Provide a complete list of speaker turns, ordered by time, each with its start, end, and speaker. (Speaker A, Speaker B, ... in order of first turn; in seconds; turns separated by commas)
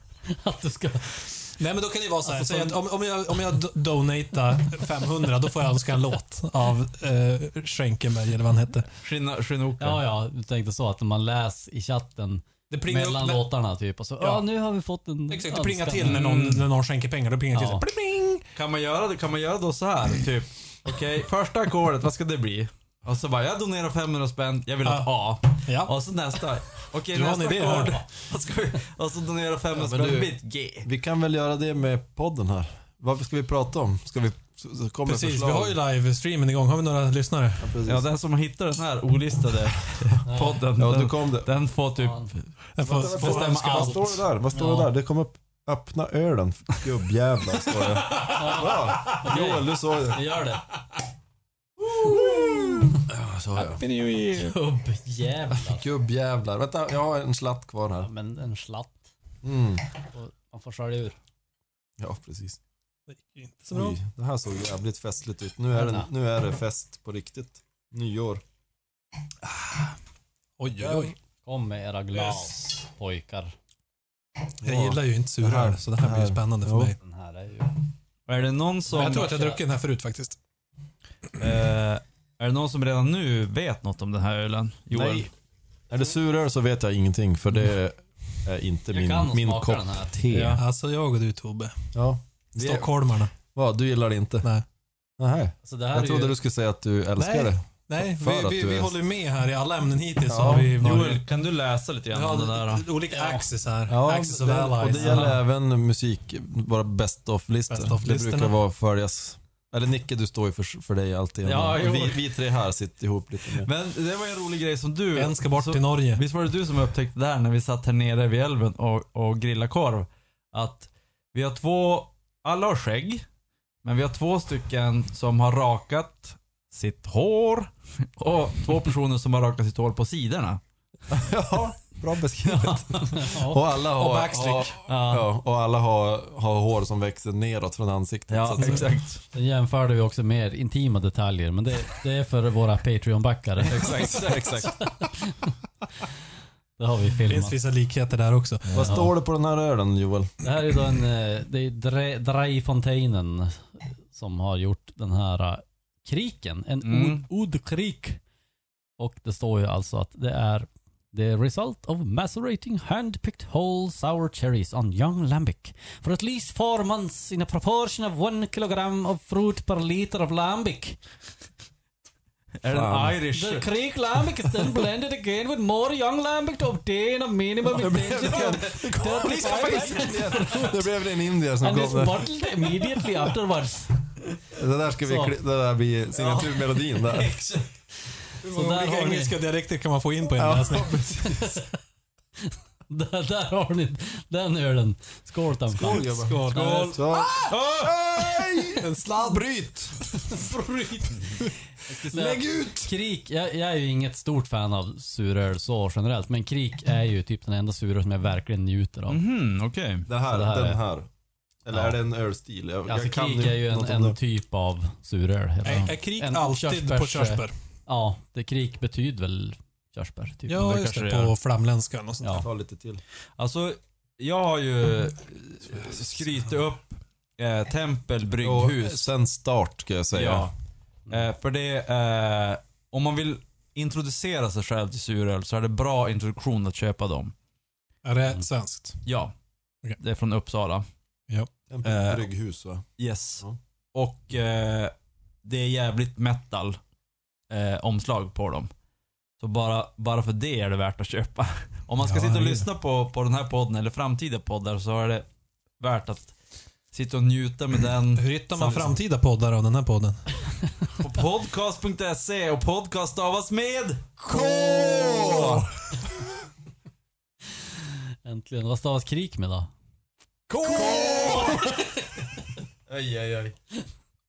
Speaker A: 0.2-1.5, Speaker B: 1.6-8.9, Speaker A: 2.3-2.7, Speaker C: 9.0-10.0, Speaker A: 9.8-16.3, Speaker B: 12.7-13.5, Speaker B: 14.2-14.5, Speaker B: 15.3-18.4, Speaker C: 16.0-16.7, Speaker A: 17.5-17.9, Speaker C: 18.6-30.9, Speaker B: 24.8-25.1, Speaker B: 25.6-25.9, Speaker B: 27.1-28.0, Speaker D: 29.7-30.3, Speaker D: 30.8-35.8, Speaker B: 35.0-37.8, Speaker D: 37.6-38.1, Speaker C: 37.9-44.2, Speaker A: 40.2-40.6, Speaker D: 40.8-41.5, Speaker A: 42.0-42.3, Speaker B: 42.8-44.2, Speaker D: 42.8-50.4, Speaker A: 44.5-44.9, Speaker A: 48.2-50.7, Speaker D: 52.0-53.8, Speaker C: 53.6-54.5, Speaker A: 54.2-55.9, Speaker D: 55.5-58.1, Speaker A: 58.0-59.1, Speaker D: 59.4-59.9, Speaker A: 60.1-61.1, Speaker D: 62.0-62.6, Speaker B: 63.1-64.0, Speaker D: 63.7-68.4, Speaker A: 65.7-66.1, Speaker B: 70.6-71.1, Speaker A: 70.8-73.6, Speaker D: 74.6-77.0, Speaker B: 74.6-77.0, Speaker A: 77.0-77.8, Speaker C: 78.3-79.3, Speaker B: 78.9-80.4, Speaker A: 79.0-79.6, Speaker C: 81.4-85.3, Speaker D: 84.9-85.3, Speaker D: 85.9-90.6, Speaker A: 88.9-90.2, Speaker C: 90.3-90.6, Speaker B: 90.5-91.9, Speaker D: 91.9-93.0, Speaker B: 92.6-93.3, Speaker D: 93.5-94.5, Speaker D: 95.2-99.0, Speaker A: 95.6-96.4, Speaker B: 97.2-101.2, Speaker D: 100.3-100.7, Speaker C: 100.5-102.9, Speaker B: 102.1-105.4, Speaker A: 103.1-103.5, Speaker D: 103.9-113.7, Speaker A: 105.0-105.3, Speaker B: 107.7-108.6, Speaker C: 111.5-112.3, Speaker C: 113.5-123.2, Speaker B: 115.1-116.2, Speaker C: 123.8-130.6, Speaker D: 131.1-139.0, Speaker C: 132.4-133.3, Speaker A: 133.1-133.6, Speaker B: 133.9-134.7, Speaker C: 134.9-135.3, Speaker C: 138.3-139.2, Speaker A: 139.3-145.6, Speaker D: 143.6-144.8, Speaker C: 143.7-144.6, Speaker A: 146.8-147.6, Speaker B: 147.3-149.0, Speaker D: 148.7-150.5, Speaker A: 148.8-149.1, Speaker A: 150.4-158.2, Speaker C: 156.8-157.2, Speaker A: 159.0-171.0, Speaker C: 172.6-173.7, Speaker D: 172.7-173.2, Speaker A: 173.3-180.8, Speaker D: 177.7-182.3, Speaker C: 178.1-180.9, Speaker A: 181.6-184.1, Speaker D: 184.5-187.4, Speaker A: 185.0-185.4, Speaker C: 186.2-187.7, Speaker A: 188.3-189.4, Speaker B: 188.4-190.9, Speaker D: 190.4-191.5, Speaker A: 191.1-191.7, Speaker A: 192.5-197.0, Speaker D: 195.8-200.0, Speaker B: 195.8-197.5, Speaker C: 196.6-196.9, Speaker C: 197.4-198.5, Speaker B: 198.8-199.4, Speaker A: 200.3-209.2, Speaker D: 202.0-202.9, Speaker C: 209.1-210.1, Speaker D: 210.1-211.1, Speaker A: 210.3-210.8, Speaker D: 211.6-214.2, Speaker A: 211.7-212.0, Speaker A: 212.9-220.6, Speaker B: 215.6-217.5, Speaker B: 220.5-222.3, Speaker C: 220.6-221.3, Speaker A: 222.2-222.5, Speaker D: 222.3-223.0, Speaker C: 223.4-229.1, Speaker D: 228.4-230.5, Speaker C: 230.1-230.5, Speaker C: 231.1-237.3, Speaker B: 238.1-239.0, Speaker C: 239.1-239.3, Speaker C: 240.0-240.8, Speaker D: 241.7-242.9, Speaker C: 241.8-242.2, Speaker C: 243.0-244.9, Speaker C: 245.4-246.8, Speaker C: 247.5-248.7, Speaker C: 249.4-255.3, Speaker B: 252.0-252.7, Speaker C: 255.8-256.4, Speaker C: 256.9-259.0, Speaker B: 258.1-260.3, Speaker C: 261.0-264.2, Speaker A: 264.2-265.6, Speaker D: 264.3-265.6, Speaker C: 265.3-265.6, Speaker A: 267.9-269.7, Speaker D: 270.5-271.7, Speaker A: 270.6-272.2, Speaker C: 271.1-271.5, Speaker D: 272.9-273.5